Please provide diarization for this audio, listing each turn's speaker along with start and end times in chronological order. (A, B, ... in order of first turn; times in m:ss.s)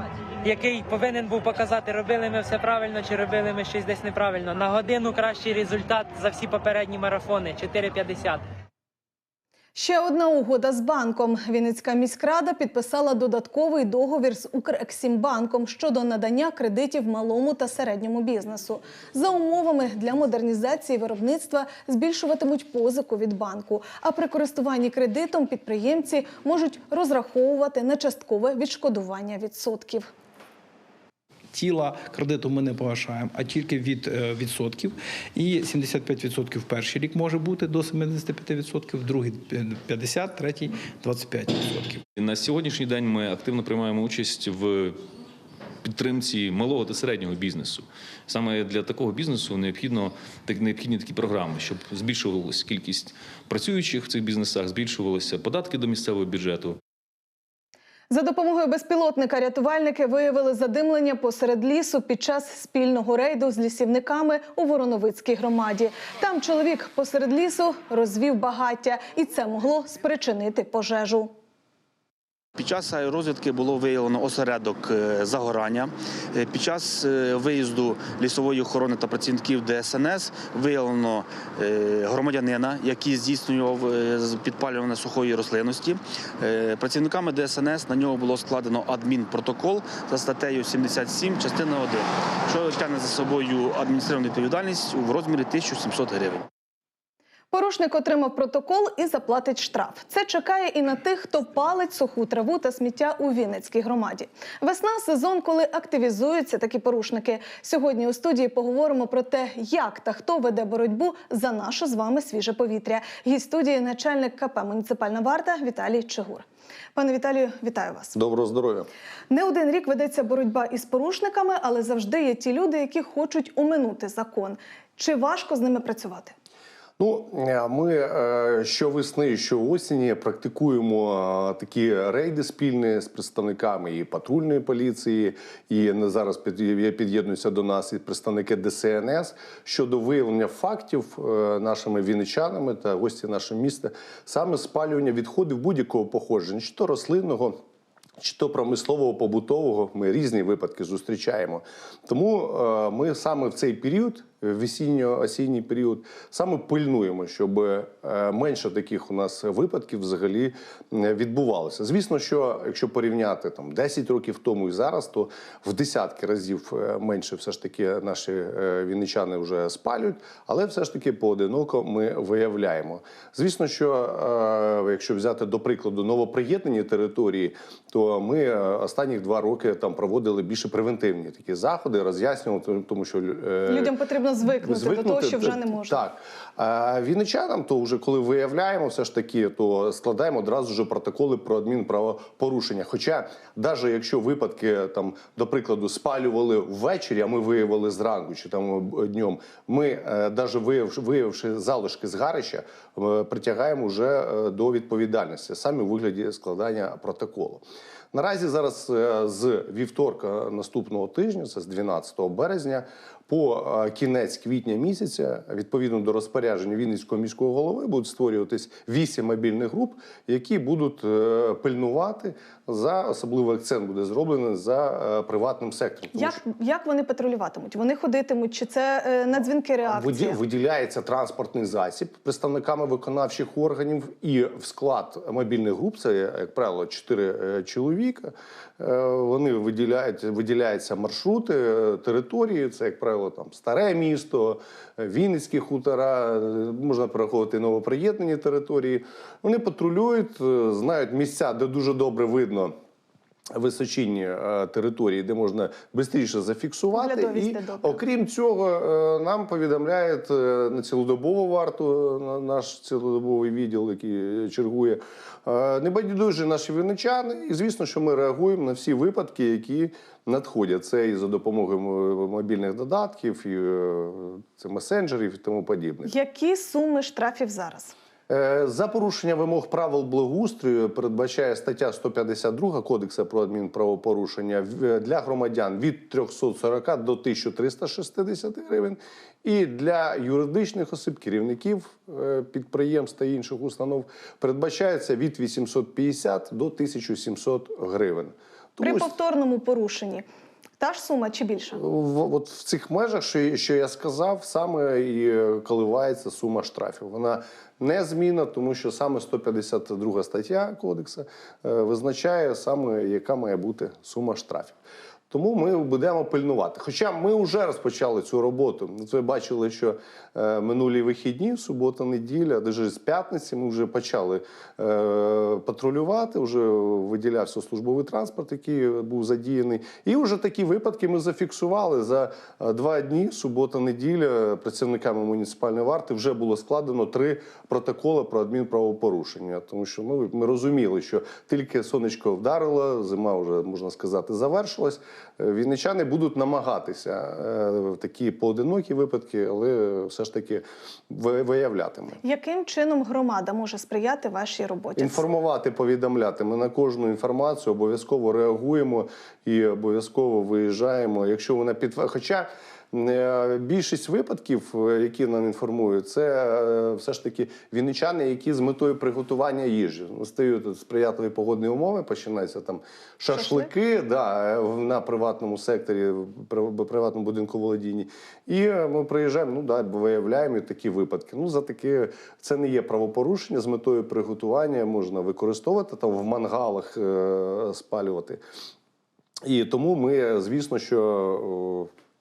0:00.4-0:08.4 A
0:09.7-0:30.1 B
0:31.5-0:42.0 C
0:42.2-0:45.0 D
0:45.8-0:56.8 D
0:58.1-1:11.3 B
1:12.6-1:36.4 E
1:37.5-1:58.2 B
1:58.1-1:58.9 F
1:59.3-2:06.3 B
2:07.0-2:27.6 F
2:28.2-3:03.9 F
3:03.7-3:06.0 B
3:04.6-3:46.4 F
3:46.1-3:50.4 B
3:49.9-4:12.7 F
4:13.6-4:36.1 F
4:16.9-4:18.0 B
4:36.0-4:37.9 B
4:38.3-4:59.1 F
4:58.8-5:00.2 B
5:00.8-5:01.8 B
5:01.7-5:14.8 F
5:15.3-5:52.2 F
5:52.2-5:55.2 B
5:55.0-6:28.4 F
6:13.3-6:13.7 B
6:29.4-6:31.9 F